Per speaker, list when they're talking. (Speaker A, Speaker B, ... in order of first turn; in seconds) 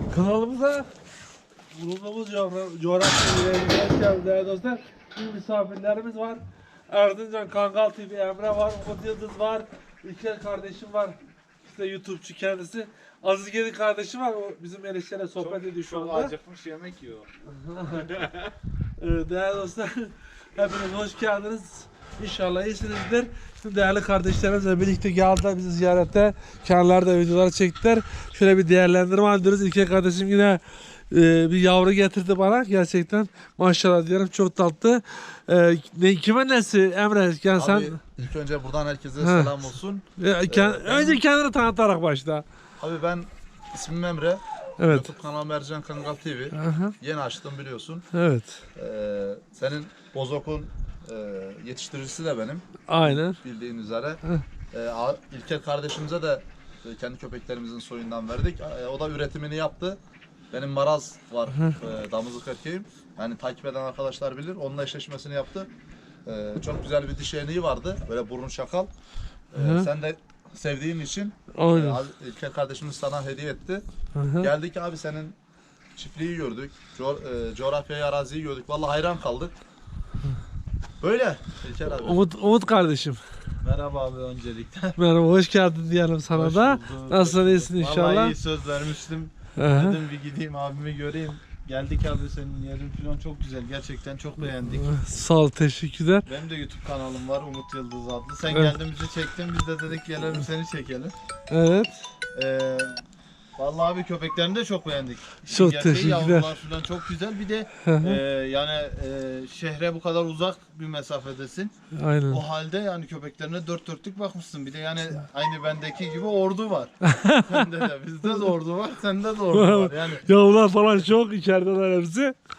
Speaker A: 0.1-0.9, 1.7-16.3, 17.6-18.1, 19.0-38.0, 39.2-42.4, 44.8-45.1, 46.5-46.9, 48.1-48.6, 52.9-53.4, 61.5-61.8, 69.5-69.9, 71.5-72.0, 74.1-74.5, 82.0-83.2, 85.0-88.3, 89.6-90.0, 94.7-96.2, 98.5-98.8, 101.5-102.0, 105.5-106.5, 107.8-108.2, 111.9-112.4, 117.0-117.6, 119.5-122.3
Speaker B: 15.4-17.2, 83.6-85.0, 86.3-94.8, 96.2-101.1, 102.3-103.0, 103.6-111.7, 112.3-120.2
Speaker C: 37.5-41.2, 42.8-48.0, 48.8-54.2, 54.7-60.0, 60.5-65.7, 66.2-68.9, 69.5-73.8, 74.4-75.3, 76.0-79.5, 81.0-82.2